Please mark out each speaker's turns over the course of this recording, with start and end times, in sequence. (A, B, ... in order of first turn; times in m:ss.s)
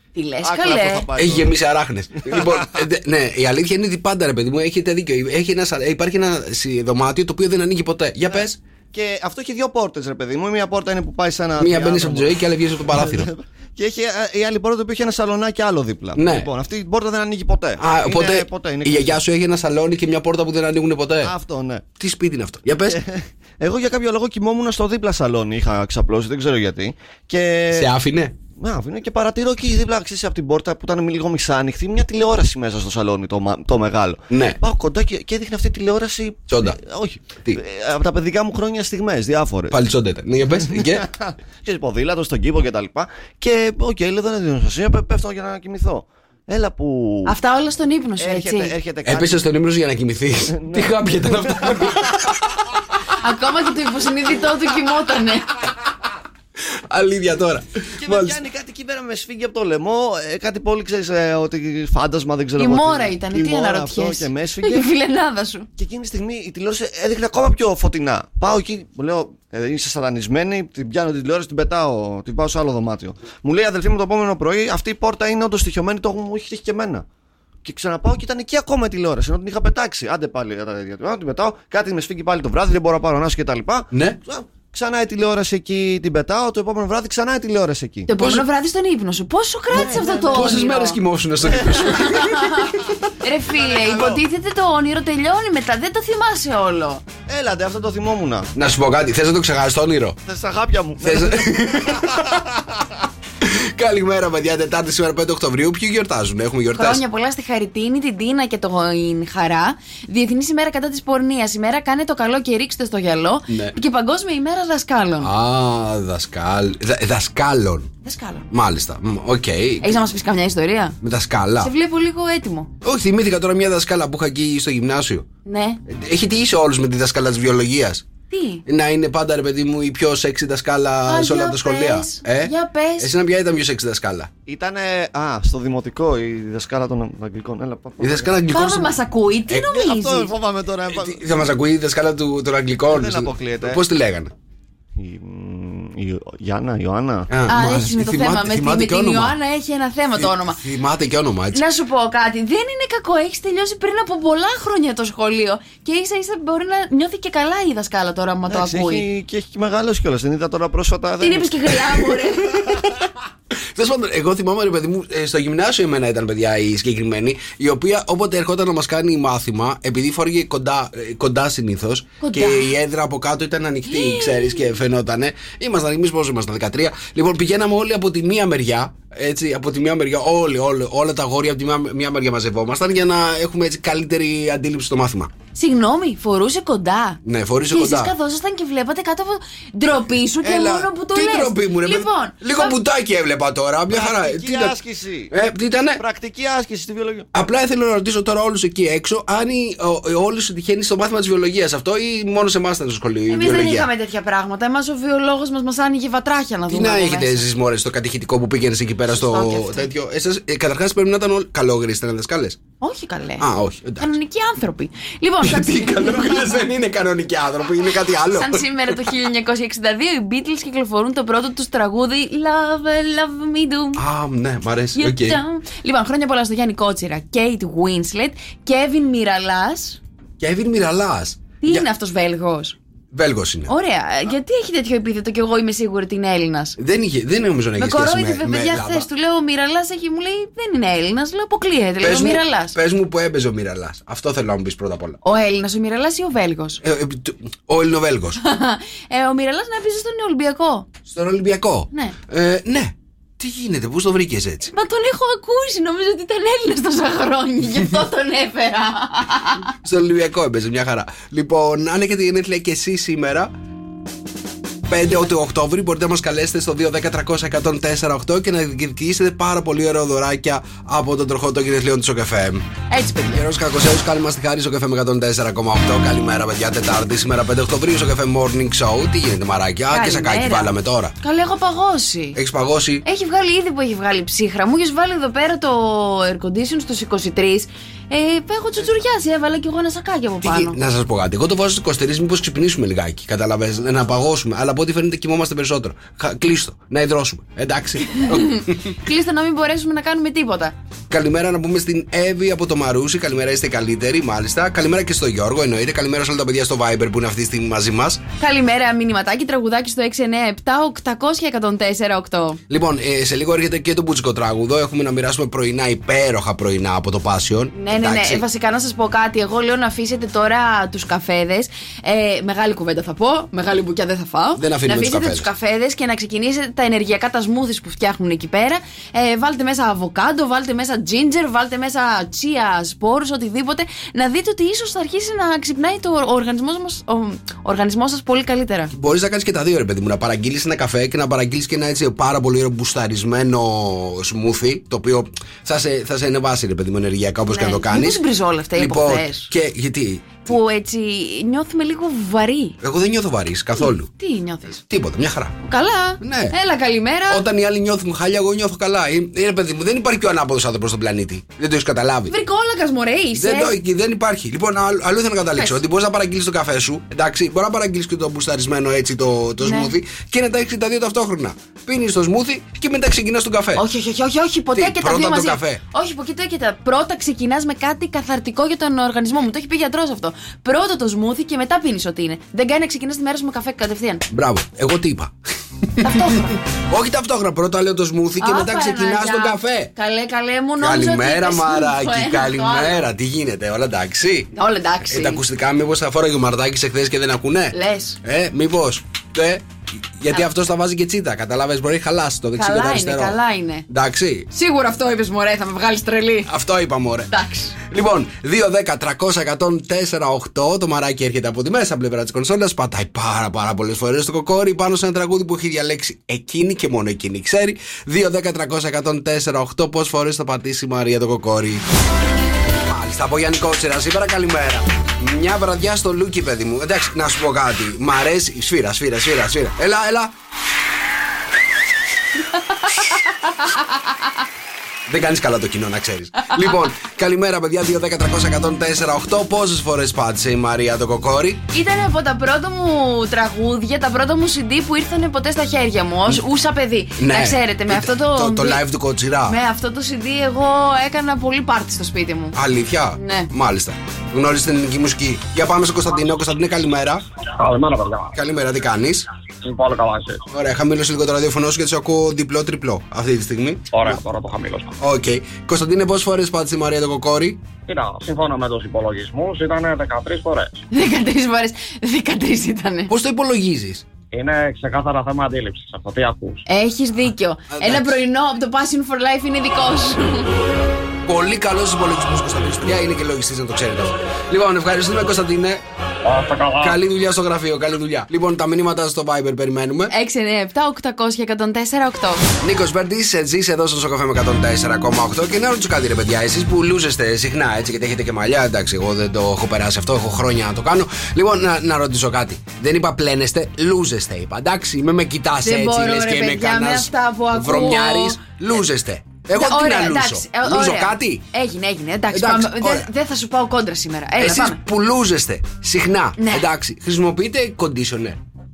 0:00.1-0:01.0 A
0:00.4-0:01.5 B
0:01.2-0:08.6 C
0:08.2-0:12.4 B
0:11.6-0:13.3 C
0:12.9-0:19.2 B
0:16.2-0:16.5 C
0:17.8-0:21.3 C
0:21.2-0:21.8 B
0:22.0-0:23.0 C
0:22.9-0:27.9 B
0:27.7-0:28.3 C
0:28.6-0:39.8 B
0:34.3-0:34.6 C
0:36.5-0:36.8 C
0:39.7-0:41.0 C
0:40.7-0:47.3 B
0:47.3-0:48.7 A
0:48.2-0:49.4 B
0:49.0-0:52.3 C
0:50.5-0:52.1 B
0:53.2-0:55.5 A
0:56.9-0:58.4 C
0:58.0-1:04.9 B
1:02.6-1:05.7 A
1:05.8-1:17.0 B
1:17.6-1:28.1 B
1:23.9-1:24.2 C
1:28.1-1:31.0 A
1:28.1-1:28.4 C
1:29.7-1:30.7 B
1:30.3-1:32.6 C
1:31.5-1:31.8 B
1:31.8-1:37.0 A
1:33.5-1:34.2 B
1:37.3-1:38.5 B
1:38.5-1:40.2 C
1:40.2-1:42.8 B
1:41.0-1:42.3 C
1:43.4-1:47.0 C
1:46.7-1:55.3 A
1:53.5-1:53.8 C
1:55.2-1:57.9 C
1:58.0-1:58.4 A
1:58.5-2:00.0 C
1:59.8-2:01.0 A
2:01.0-2:01.7 C
2:01.6-2:02.7 A
2:02.8-2:05.2 C
2:05.4-2:05.8 A
2:05.8-2:08.0 C
2:08.3-2:08.6 A
2:08.6-2:14.3 C
2:11.1-2:13.1 A
2:14.4-2:18.3 B
2:18.0-2:18.9 C
2:18.5-2:20.3 A
2:19.7-2:21.3 B
2:20.9-2:24.3 C
2:22.9-2:23.8 B
2:25.0-2:27.3 B
2:27.3-2:29.4 C
2:27.5-2:30.6 A
2:30.2-2:31.6 C
2:31.5-2:39.0 A
2:38.5-2:42.0 B
2:41.2-2:42.8 A
2:43.7-3:05.3 C
2:52.2-2:52.7 A
2:53.9-2:54.6 A
3:05.5-3:12.8 A
3:07.2-3:08.1 C
3:10.4-3:14.8 C
3:13.9-3:15.3 B
3:15.3-3:16.0 C
3:16.0-3:17.3 B
3:17.3-3:23.9 C
3:23.3-3:27.4 A
3:26.7-3:32.6 C
3:29.1-3:29.9 A
3:32.8-3:33.4 A
3:33.4-3:34.1 C
3:34.0-3:36.4 A
3:35.4-3:39.0 C
3:38.3-3:44.0 A
3:44.0-3:45.4 C
3:45.0-3:50.0 A
3:50.4-3:51.9 C
3:51.6-3:52.8 A
3:53.1-3:53.7 C
3:53.7-3:56.8 A
3:56.8-3:59.1 C
3:57.8-4:02.8 A
4:02.0-4:05.2 C
4:05.2-4:06.8 A
4:06.8-4:08.4 C
4:08.4-4:10.9 A
4:11.1-4:14.7 C
4:14.7-4:19.7 A
4:19.8-4:23.5 C
4:24.9-4:32.6 C
4:32.9-4:33.4 A
4:33.3-4:41.2 C
4:39.9-4:40.7 A
4:41.2-4:42.4 A
4:42.3-4:43.0 C
4:43.0-4:50.8 A
4:50.4-4:59.0 C
4:58.1-5:00.7 A
5:01.1-5:08.2 C
5:08.4-5:12.6 A
5:12.7-5:18.4 C
5:17.7-5:38.9 A
5:24.6-5:25.5 C
5:38.9-5:48.2 C
5:47.5-5:49.5 A
5:48.7-5:50.6 C
5:50.4-5:52.8 A
5:52.8-5:54.1 C
5:53.8-5:54.8 A
5:54.8-5:55.6 C
5:55.6-5:57.4 A
5:56.2-5:56.5 C
5:57.3-6:02.4 C
6:02.3-6:03.7 A
6:03.3-6:13.8 C
6:05.5-6:05.8 A
6:09.6-6:09.9 A
6:13.7-6:24.2 A
6:14.7-6:15.8 C
6:24.3-6:25.3 C
6:26.0-6:26.3 C
6:26.0-6:26.6 A
6:26.9-6:29.9 C
6:28.4-6:33.0 A
6:30.8-6:34.5 C
6:34.5-6:35.4 A
6:35.0-6:39.6 C
6:37.7-6:38.2 A
6:40.2-6:44.5 C
6:42.6-6:43.9 A
6:44.5-6:46.5 A
6:46.4-7:01.8 C
6:47.3-6:47.7 A
7:02.8-7:10.3 C
7:15.1-7:21.6 C
7:21.7-7:28.8 A
7:27.2-7:29.6 C
7:29.5-7:32.6 A
7:32.5-7:37.2 C
7:33.2-7:33.5 A
7:37.6-7:38.3 D
7:38.3-7:39.3 C
7:39.6-7:40.4 D
7:40.5-7:44.2 C
7:43.9-7:44.9 D
7:45.0-7:47.6 C
7:47.9-7:50.8 D
7:50.9-7:53.1 A
7:53.1-7:54.0 C
7:54.3-7:56.6 D
7:56.7-8:00.5 A
7:57.7-7:58.2 C
8:01.2-8:05.8 C
8:06.2-8:07.0 D
8:06.8-8:10.1 C
8:10.1-8:12.4 A
8:12.6-8:31.4 C
8:25.6-8:28.4 A
8:29.5-8:34.8 A
8:32.3-8:33.1 C
8:34.4-8:38.4 C
8:36.4-8:36.6 A